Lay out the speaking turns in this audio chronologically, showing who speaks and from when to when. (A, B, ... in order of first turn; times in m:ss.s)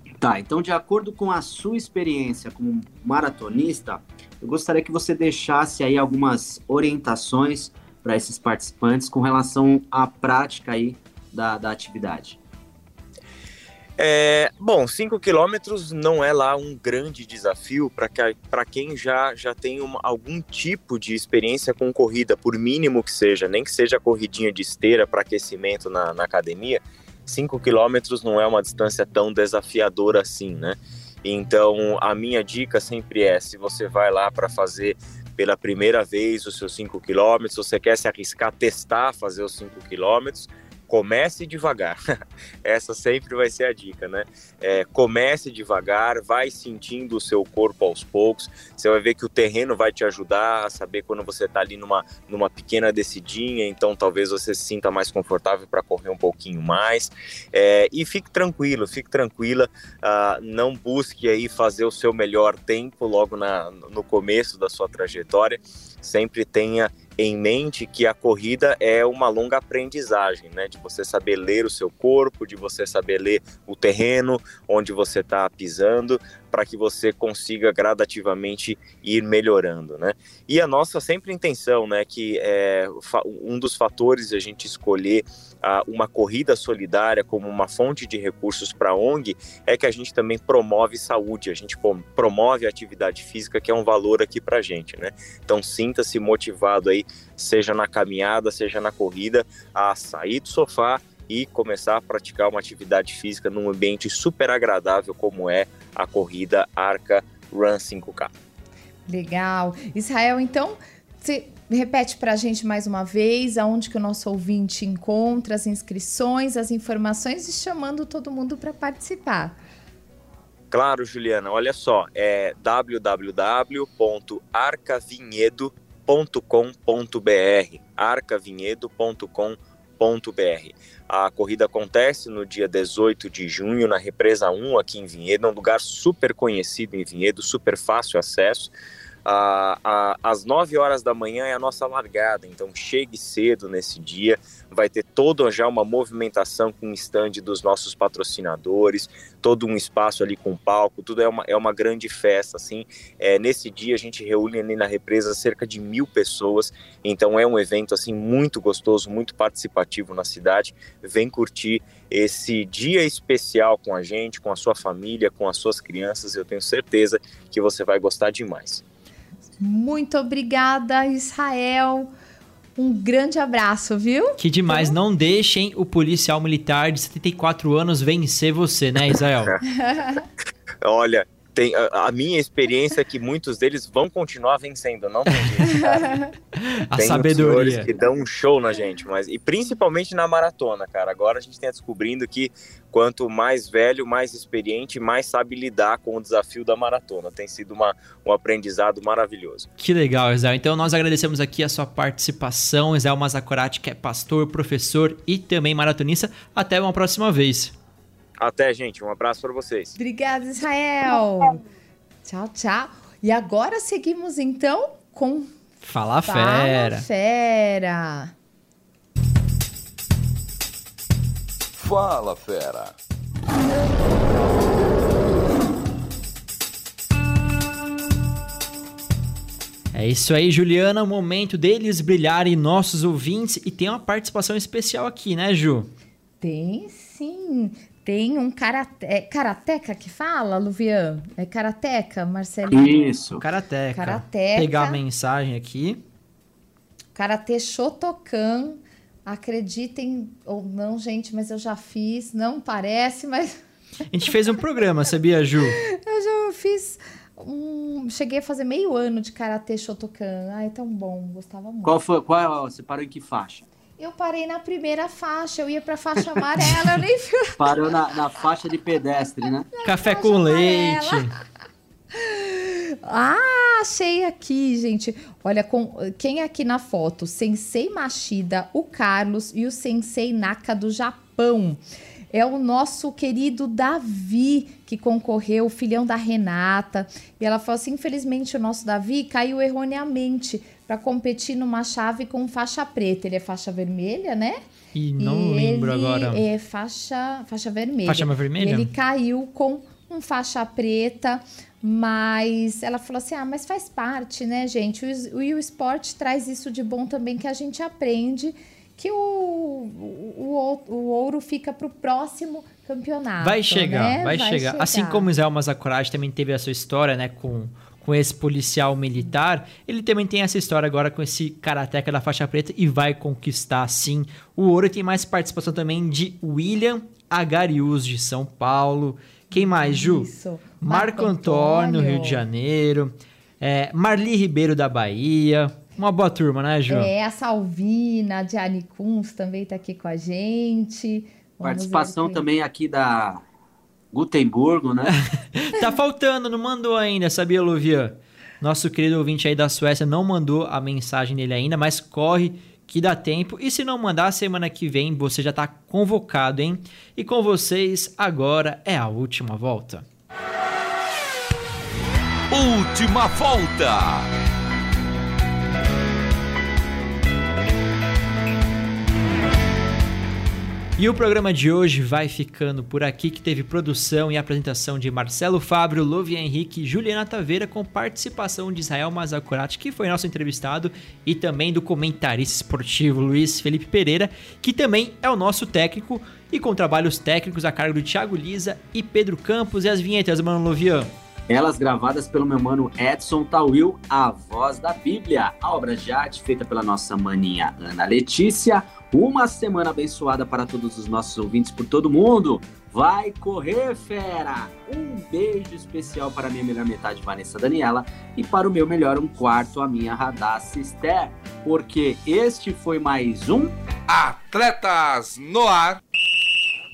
0:00.2-0:12.4 A
0:14.0-0:42.0 B
0:42.6-1:48.3 B
1:49.1-1:59.6 C
2:00.7-2:18.7 B
2:19.2-2:48.8 B
2:49.6-2:52.1 C
2:52.8-2:54.9 C
2:54.4-2:59.6 D
2:59.6-3:00.2 C
3:00.8-3:06.2 B
3:05.9-3:06.3 C
3:06.6-3:07.9 D
3:07.0-3:19.7 B
3:19.8-3:27.7 D
3:28.4-3:30.0 B
3:30.0-3:31.6 C
3:32.2-3:35.6 C
3:35.8-3:37.0 D
3:36.2-3:38.3 C
3:41.8-3:42.9 E
3:49.9-3:55.9 D
3:56.4-4:03.1 C
4:02.7-4:03.4 A
4:03.4-4:06.0 D
4:03.9-4:05.0 C
4:07.1-4:13.6 C
4:14.1-4:15.8 D
4:15.8-4:21.9 C
4:21.8-4:23.6 A
4:24.0-4:27.6 C
4:27.6-4:29.7 A
4:29.7-4:31.3 C
4:29.8-4:31.3 D
4:32.1-4:54.6 C
4:54.9-4:56.4 D
4:55.2-5:15.3 C
4:58.0-4:58.9 D
5:13.4-5:30.3 D
5:29.5-5:32.4 C
5:30.8-5:37.1 D
5:36.9-5:42.4 C
5:41.6-5:43.4 A
5:44.1-5:45.2 A
5:45.0-6:00.0 D
6:02.5-6:04.3 E
6:11.0-6:31.1 D
6:31.5-6:53.8 A
6:54.1-6:56.0 E